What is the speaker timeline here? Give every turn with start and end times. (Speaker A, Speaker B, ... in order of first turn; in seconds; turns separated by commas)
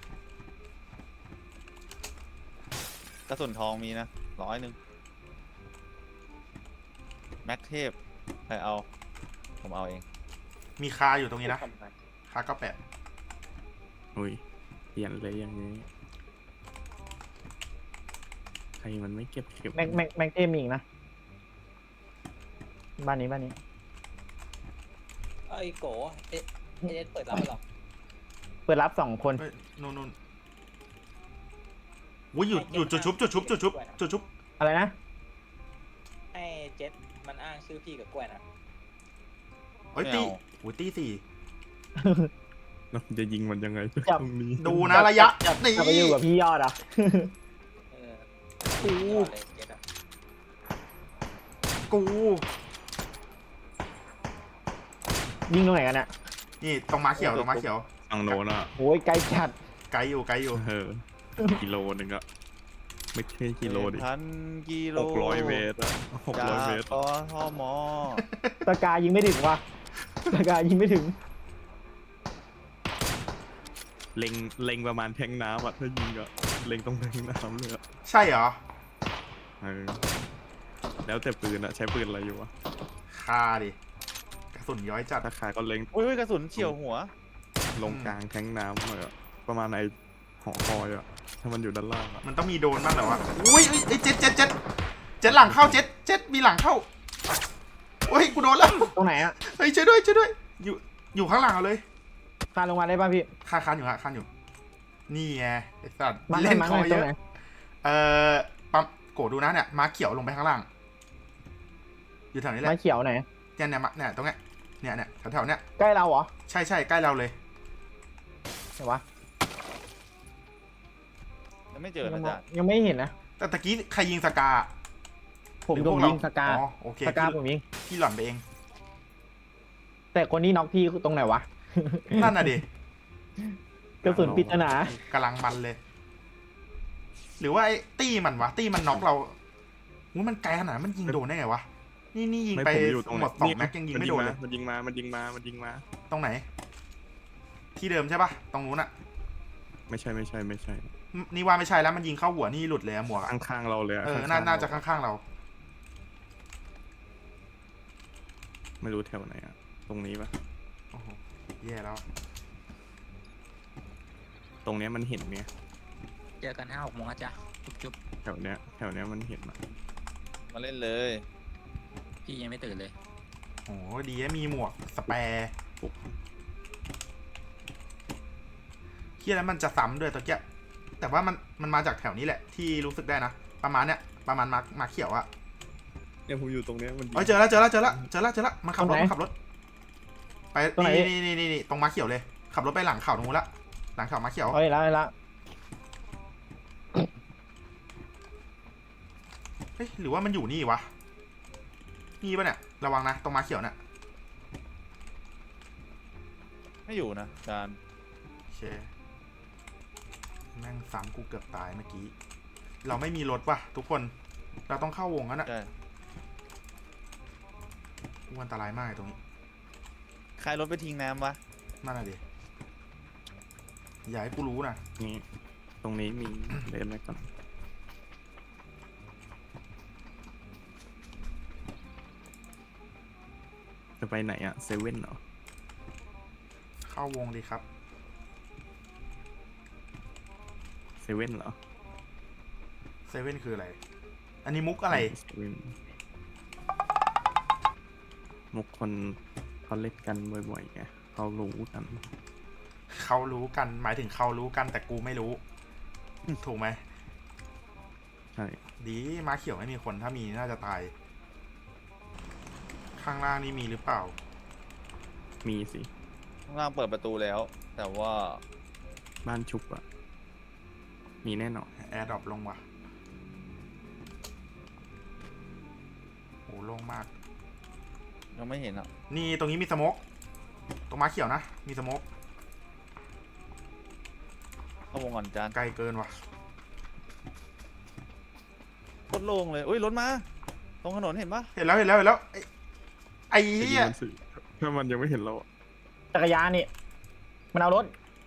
Speaker A: 3.3-4.8, Speaker A: 7.5-8.0, Speaker A: 8.5-8.8, Speaker A: 9.6-10.0, Speaker B: 10.8-11.7, Speaker C: 11.4-11.9, Speaker B: 12.3-12.8, Speaker D: 14.2-14.4, Speaker D: 14.9-15.9, Speaker D: 18.8-20.0, Speaker E: 19.8-20.8, Speaker E: 23.0-23.6, Speaker C: 25.5-27.6, Speaker E: 28.7-29.4, Speaker B: 29.4-30.1, Speaker B: 32.3-34.3, Speaker C: 32.5-34.0, Speaker E: 34.6-34.9, Speaker C: 36.3-38.4, Speaker B: 39.9-41.2, Speaker A: 40.0-40.4, Speaker E: 42.0-42.3, Speaker D: 42.9-45.0, Speaker B: 44.6-46.2, Speaker E: 44.8-47.3, Speaker C: 47.9-49.8, Speaker B: 48.8-49.3, Speaker B: 51.9-52.5, Speaker E: 55.5-56.1, Speaker B: 56.6-58.4, Speaker D: 57.2-58.7, Speaker E: 58.8-59.5, Speaker B: 59.9-60.6, Speaker D: 60.5-62.2, Speaker D: 63.1-64.1, Speaker A: 63.6-65.7, Speaker D: 65.0-67.0, Speaker A: 66.3-68.2, Speaker B: 68.2-68.6, Speaker E: 68.7-69.6, Speaker E: 70.3-71.2, Speaker D: 74.2-77.8, Speaker B: 78.0-78.6, Speaker D: 79.6-80.0, Speaker D: 81.0-82.5, Speaker B: 83.1-83.8, Speaker B: 84.5-85.3, Speaker D: 85.2-85.9, Speaker A: 85.9-87.1, Speaker D: 87.8-92.2, Speaker B: 87.8-88.2, Speaker B: 92.2-94.5, Speaker B: 95.2-96.8, Speaker D: 95.3-95.8, Speaker B: 98.1-101.8, Speaker E: 98.9-99.4, Speaker E: 102.5-103.3, Speaker B: 103.5-104.3, Speaker B: 105.1-107.1, Speaker E: 106.3-107.2, Speaker B: 107.8-110.7, Speaker B: 112.3-112.8, Speaker E: 112.6-113.2, Speaker B: 113.6-115.6, Speaker E: 115.8-116.3, Speaker B: 116.5-117.3, Speaker E: 118.8-119.0, Speaker A: 121.7-122.4, Speaker E: 122.0-123.1, Speaker B: 123.4-124.7, Speaker E: 125.7-127.6, Speaker B: 125.7-128.4, Speaker E: 130.1-132.5, Speaker B: 132.1-132.6, Speaker E: 134.0-135.0, Speaker D: 134.0-135.0, Speaker B: 135.1-135.8, Speaker B: 137.4-139.3, Speaker B: 140.1-144.4, Speaker D: 142.5-145.8, Speaker B: 146.1-146.4, Speaker B: 147.8-148.9, Speaker D: 149.9-150.9, Speaker B: 151.1-153.3, Speaker D: 153.2-154.8, Speaker B: 154.0-155.2, Speaker D: 158.8-160.3, Speaker B: 160.9-162.0, Speaker D: 164.6-165.5, Speaker C: 166.4-167.9, Speaker D: 168.2-169.6, Speaker A: 170.5-171.2, Speaker C: 172.2-172.9, Speaker B: 173.7-175.5, Speaker D: 175.8-176.1, Speaker B: 179.2-180.4, Speaker B: 181.0-185.3, Speaker D: 186.3-188.1, Speaker B: 187.2-189.3, Speaker E: 188.8-189.1, Speaker B: 190.5-194.6, Speaker E: 190.8-191.1, Speaker E: 194.5-195.1, Speaker B: 199.8-200.9, Speaker B: 202.2-203.8, Speaker A: 206.9-207.8, Speaker B: 208.5-208.9, Speaker B: 210.6-212.1, Speaker B: 212.8-214.1, Speaker B: 214.7-215.5, Speaker B: 218.3-219.2, Speaker A: 220.4-221.4, Speaker B: 221.8-222.2, Speaker B: 224.1-224.8, Speaker D: 225.0-225.2, Speaker D: 225.8-227.3, Speaker D: 234.0-235.2, Speaker B: 236.8-237.6, Speaker D: 241.0-241.6, Speaker B: 243.1-243.8, Speaker B: 244.4-245.1, Speaker D: 244.9-245.8, Speaker D: 248.5-252.1, Speaker B: 252.9-255.4, Speaker B: 256.4-256.8, Speaker D: 258.4-258.6, Speaker B: 258.8-260.9, Speaker B: 263.0-264.2, Speaker D: 265.4-265.9, Speaker A: 266.5-268.4, Speaker D: 269.2-269.8, Speaker D: 271.2-271.7, Speaker B: 271.8-272.6, Speaker B: 276.5-277.1, Speaker A: 278.3-278.9, Speaker B: 279.1-280.0, Speaker B: 280.9-282.0, Speaker A: 284.9-285.6, Speaker B: 285.5-286.1, Speaker A: 289.1-290.2, Speaker A: 290.8-291.5, Speaker B: 291.6-292.5, Speaker B: 293.3-293.9, Speaker D: 293.6-295.5, Speaker E: 296.1-296.7, Speaker E: 297.5-297.9